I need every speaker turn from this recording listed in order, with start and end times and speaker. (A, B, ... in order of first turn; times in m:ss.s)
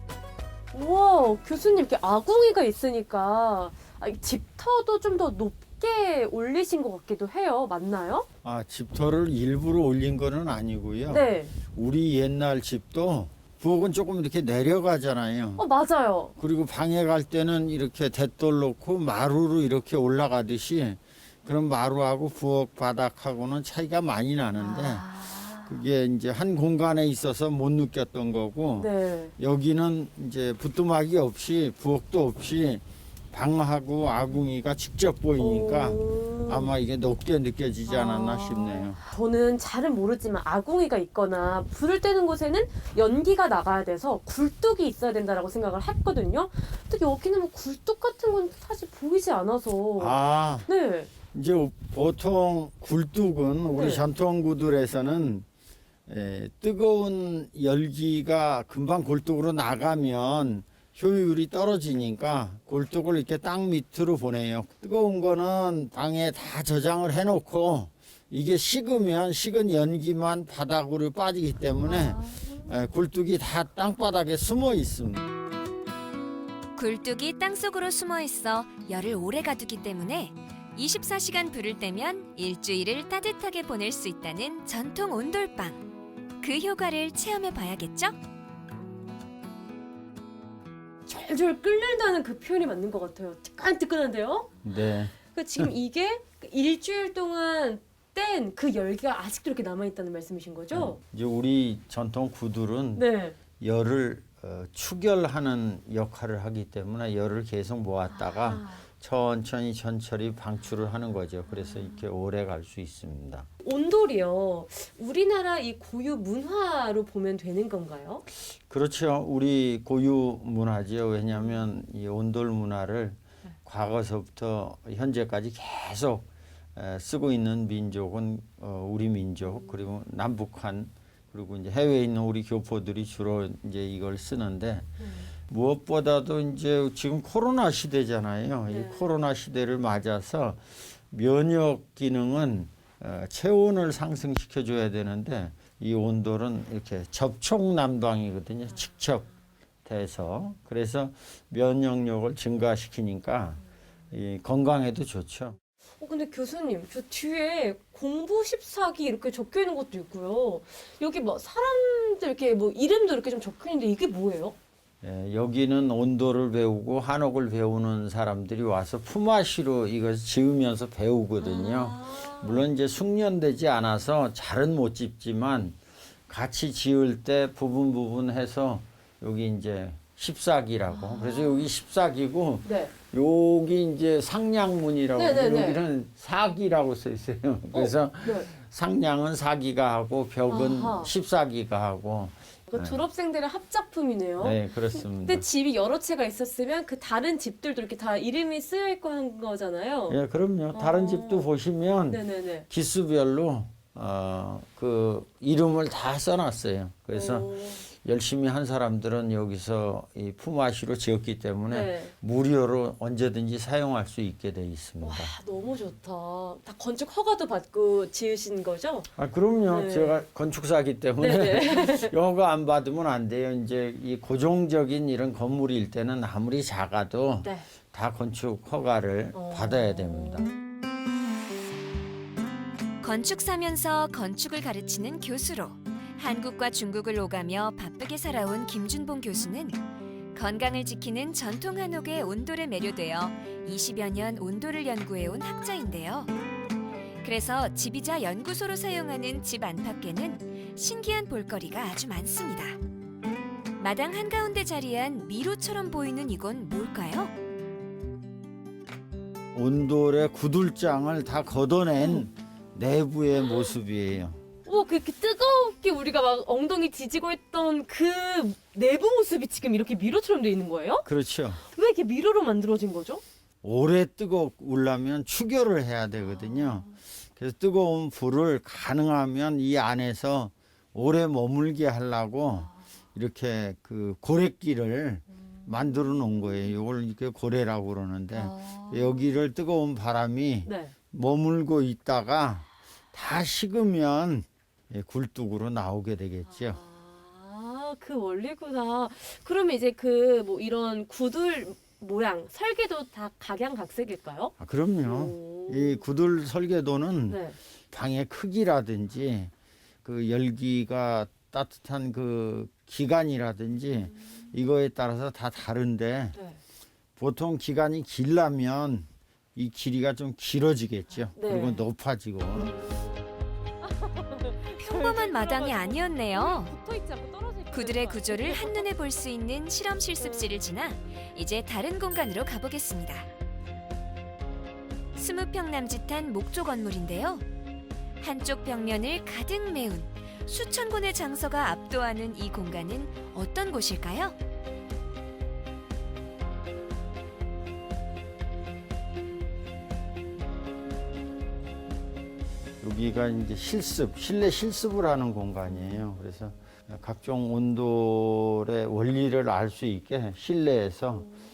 0:00.7-0:08.2 A
0:08.4-0:15.6 B
0:11.1-0:11.5 A
0:15.6-0:16.3 A
0:16.4-0:25.1 B
0:24.6-0:25.8 A
0:25.6-0:39.0 B
0:28.8-0:29.3 A
0:35.4-0:36.7 A
0:37.8-0:51.1 A
0:50.0-0:50.7 B
0:51.3-0:55.4 B
0:53.7-0:54.1 A
0:56.1-1:15.2 B
1:11.8-1:12.6 A
1:16.8-1:25.8 C
1:26.4-1:28.2 C
1:31.1-1:34.5 A
1:34.6-1:35.7 B
1:35.2-1:41.0 A
1:40.7-1:53.5 B
1:42.9-1:43.4 A
1:48.2-1:48.8 A
1:53.6-1:58.2 A
1:58.7-2:29.3 B
2:15.0-2:15.3 A
2:18.7-2:19.1 A
2:29.8-2:35.6 B
2:36.0-2:44.6 A
2:45.0-3:13.0 B
2:51.4-2:52.6 A
3:01.0-3:01.7 A
3:02.6-3:02.9 A
3:05.1-3:05.8 A
3:07.7-3:08.5 A
3:10.5-3:11.1 A
3:12.7-3:20.2 A
3:14.4-3:15.4 B
3:20.1-3:35.3 B
3:20.7-3:21.5 A
3:22.1-3:22.7 A
3:27.1-3:27.8 A
3:31.7-3:32.1 A
3:35.0-3:39.1 A
3:39.2-3:50.5 B
3:39.7-3:40.2 A
3:41.2-3:42.1 A
3:49.3-3:50.4 A
3:53.0-3:59.8 C
4:00.3-4:06.3 C
4:07.2-4:12.8 C
4:13.8-4:17.3 C
4:19.5-4:24.4 B
4:24.6-4:31.1 A
4:31.0-4:31.6 B
4:31.6-4:33.2 A
4:33.6-4:56.8 B
4:36.4-4:36.9 A
4:45.6-4:46.3 A
4:48.3-4:49.3 A
4:50.6-4:51.0 A
4:56.5-5:04.5 A
5:04.6-5:09.5 B
5:05.0-5:06.0 A
5:07.3-5:07.6 A
5:10.0-5:16.4 B
5:16.3-5:16.6 A
5:17.2-5:22.8 B
5:21.4-5:21.8 A
5:23.8-5:28.9 A
5:24.8-5:26.7 C
5:27.7-5:33.3 C
5:30.2-5:30.5 A
5:35.1-5:37.4 C
5:38.2-5:44.3 C
5:52.8-6:01.3 B